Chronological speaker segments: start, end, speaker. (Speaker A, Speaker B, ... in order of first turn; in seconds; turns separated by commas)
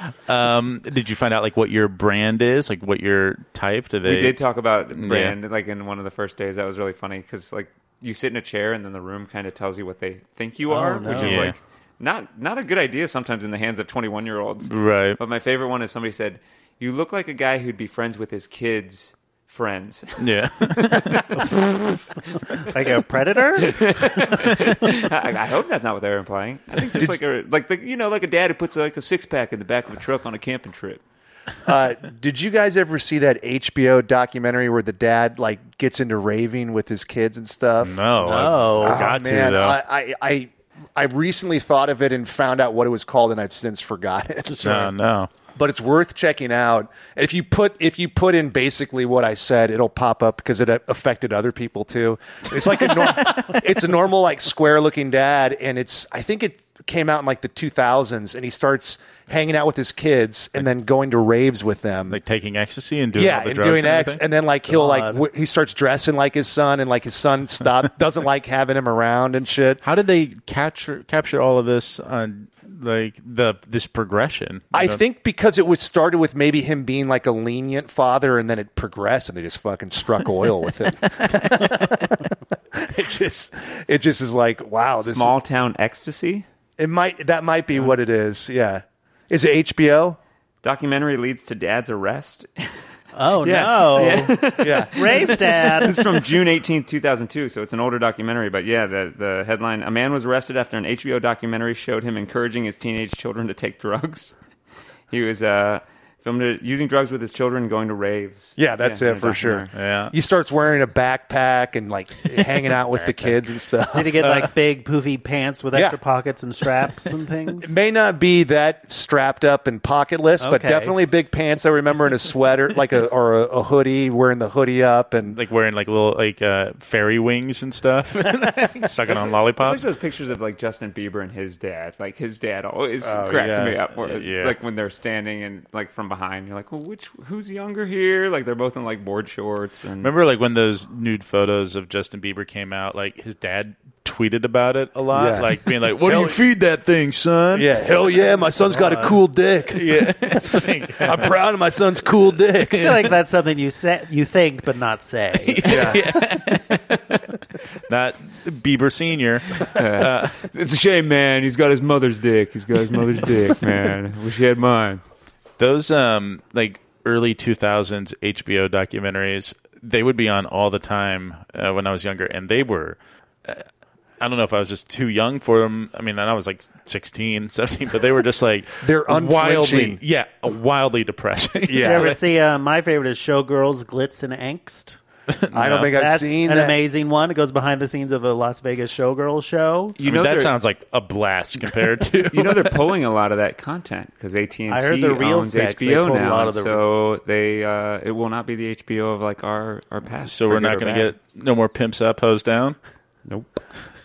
Speaker A: 0.3-4.4, Speaker B: 4.0-21.5, Speaker A: 5.0-5.3, Speaker C: 10.7-11.5, Speaker A: 11.1-11.5, Speaker A: 14.7-15.2, Speaker A: 20.2-21.5, Speaker C: 22.5-23.9, Speaker B: 23.6-31.0, Speaker A: 24.2-24.8, Speaker D: 31.6-38.0, Speaker A: 37.8-39.8, Speaker C: 38.2-39.1, Speaker D: 38.8-44.9, Speaker A: 44.6-45.3, Speaker D: 45.6-62.2, Speaker A: 62.1-64.2, Speaker D: 63.1-69.8, Speaker C: 64.7-65.2, Speaker A: 69.8-75.0, Speaker D: 74.7-82.1, Speaker A: 81.3-82.1, Speaker D: 82.7-85.3, Speaker B: 85.0-86.5, Speaker D: 86.8-90.2, Speaker B: 90.6-92.7, Speaker C: 93.2-96.0, Speaker B: 93.4-104.3, Speaker D: 94.6-95.5, Speaker B: 105.1-109.7, Speaker D: 108.6-114.3, Speaker A: 109.7-110.1, Speaker C: 113.9-117.7, Speaker D: 117.6-125.4, Speaker C: 120.4-121.0, Speaker A: 125.3-129.8, Speaker B: 129.1-140.1, Speaker D: 133.0-133.8, Speaker A: 134.0-134.6, Speaker A: 140.0-147.7, Speaker D: 145.1-146.4, Speaker D: 147.5-153.1, Speaker C: 148.4-149.2, Speaker A: 149.7-151.4, Speaker C: 152.8-155.9, Speaker A: 155.5-157.3, Speaker D: 155.6-156.1, Speaker A: 157.9-160.3, Speaker B: 159.7-165.0, Speaker A: 165.6-173.6, Speaker A: 174.2-182.2, Speaker D: 178.8-180.0, Speaker D: 181.6-182.2, Speaker C: 181.7-185.0, Speaker A: 185.3-185.9, Speaker D: 185.5-186.8, Speaker C: 186.0-190.0, Speaker B: 190.0-190.6, Speaker A: 190.0-192.9, Speaker B: 192.3-201.1, Speaker C: 194.7-196.8, Speaker A: 200.3-202.8